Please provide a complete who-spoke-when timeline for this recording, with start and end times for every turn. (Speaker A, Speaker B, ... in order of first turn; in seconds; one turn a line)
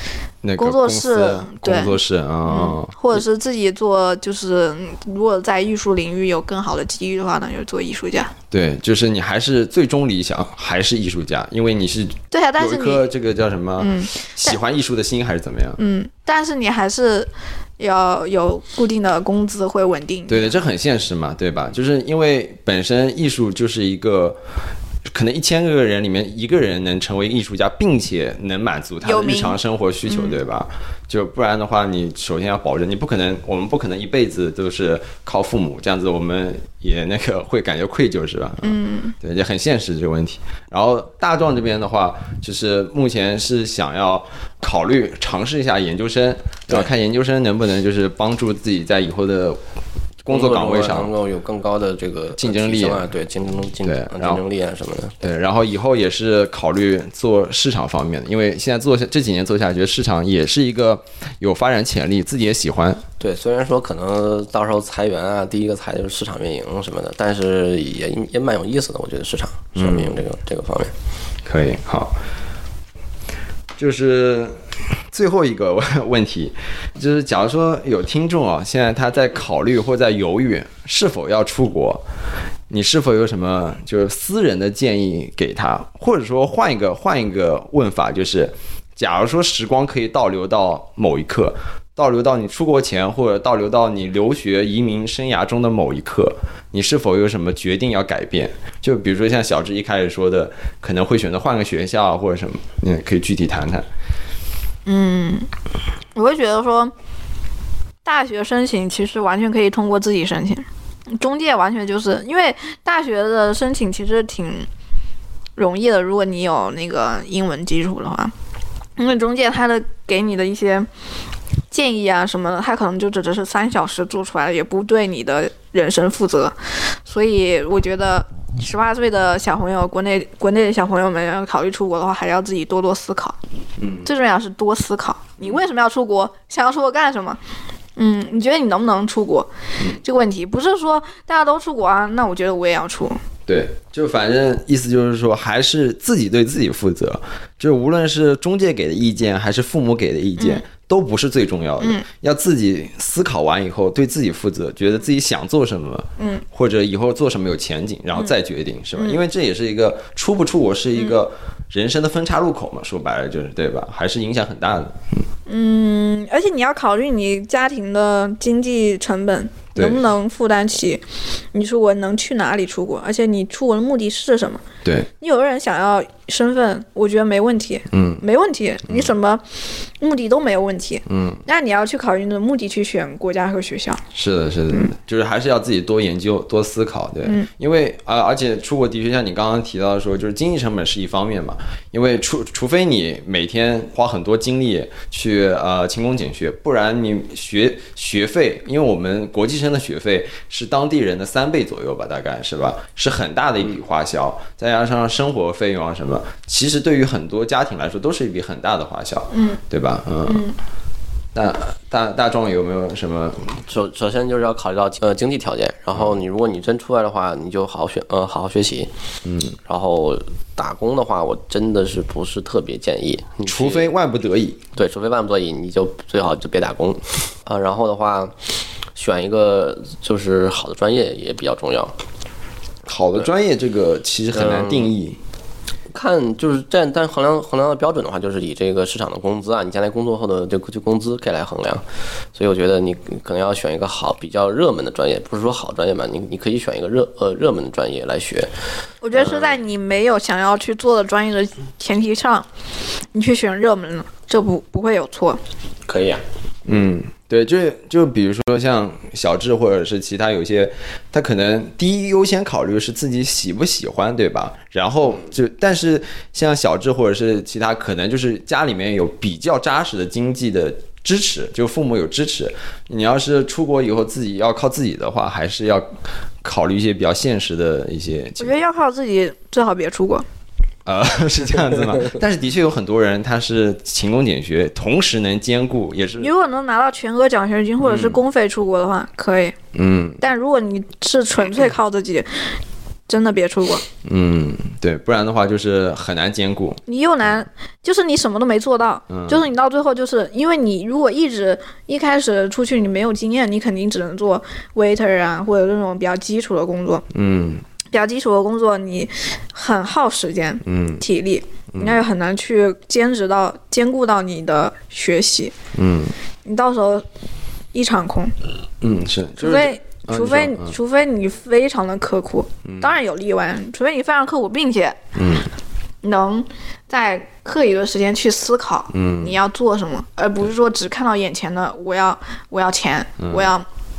Speaker A: 0.4-3.2
Speaker B: 0.6-8.3
Speaker A: 8.5-15.8
Speaker B: 12.3-13.1
Speaker B: 13.8-14.6
Speaker B: 15.8-20.6
Speaker A: 20.3-24.4
Speaker A: 25.1-49.6
Speaker B: 29.0-30.4
Speaker B: 38.6-39.1
Speaker A: 50.2-51.1
Speaker C: 50.3-55.2
Speaker A: 52.4-53.0
Speaker A: 53.8-54.4
Speaker A: 55.2-63.0
Speaker C: 63.2-70.9
Speaker A: 69.7-70.2
Speaker A: 71.4-72.2
Speaker A: 73.8-74.6
Speaker A: 75.1-82.0
Speaker A: 82.7-103.8
Speaker B: 104.8-105.5
Speaker B: 106.1-106.9
Speaker B: 108.0-114.7
Speaker B: 115.5-118.3
Speaker B: 119.0-120.9
Speaker B: 121.7-133.3
Speaker A: 133.8-134.1
Speaker B: 134.0-137.4
Speaker B: 138.0-139.5
Speaker B: 140.0-143.2
Speaker A: 143.5-165.2
Speaker B: 156.2-156.4
Speaker B: 158.9-159.2
Speaker B: 165.5-171.0
Speaker A: 169.7-170.0
Speaker B: 171.5-174.6
Speaker A: 174.8-175.1
Speaker B: 175.2-184.0
Speaker A: 177.9-178.2
Speaker A: 181.1-181.4
Speaker A: 184.1-210.5
Speaker B: 209.3-209.6
Speaker B: 210.3-210.5
Speaker A: 211.3-213.6
Speaker C: 213.7-218.9
Speaker A: 219.2-219.6
Speaker C: 219.6-223.9
Speaker A: 223.4-224.6
Speaker C: 224.7-228.3
Speaker C: 228.9-231.9
Speaker A: 232.8-235.2
Speaker C: 234.3-234.9
Speaker C: 235.9-241.8
Speaker C: 242.3-248.5
Speaker B: 249.0-252.4
Speaker C: 249.1-249.6
Speaker B: 253.1-255.4
Speaker C: 255.8-256.2
Speaker A: 256.6-275.9
Speaker A: 276.4-278.6
Speaker B: 278.4-280.2
Speaker A: 280.9-286.3
Speaker B: 286.2-289.6
Speaker A: 287.8-288.2
Speaker A: 289.7-290.2
Speaker B: 290.2-293.8
Speaker A: 294.0-297.4
Speaker B: 296.9-307.0
Speaker A: 299.1-299.4
Speaker A: 307.1-307.6
Speaker B: 307.9-315.5
Speaker A: 310.6-311.0
Speaker A: 311.7-312.0
Speaker A: 315.7-316.1
Speaker B: 316.4-317.0
Speaker B: 317.7-318.3
Speaker A: 318.8-320.8
Speaker B: 319.4-325.0
Speaker A: 322.6-323.0
Speaker A: 325.1-325.5
Speaker B: 326.0-333.6
Speaker A: 328.9-329.4
Speaker A: 333.2-333.5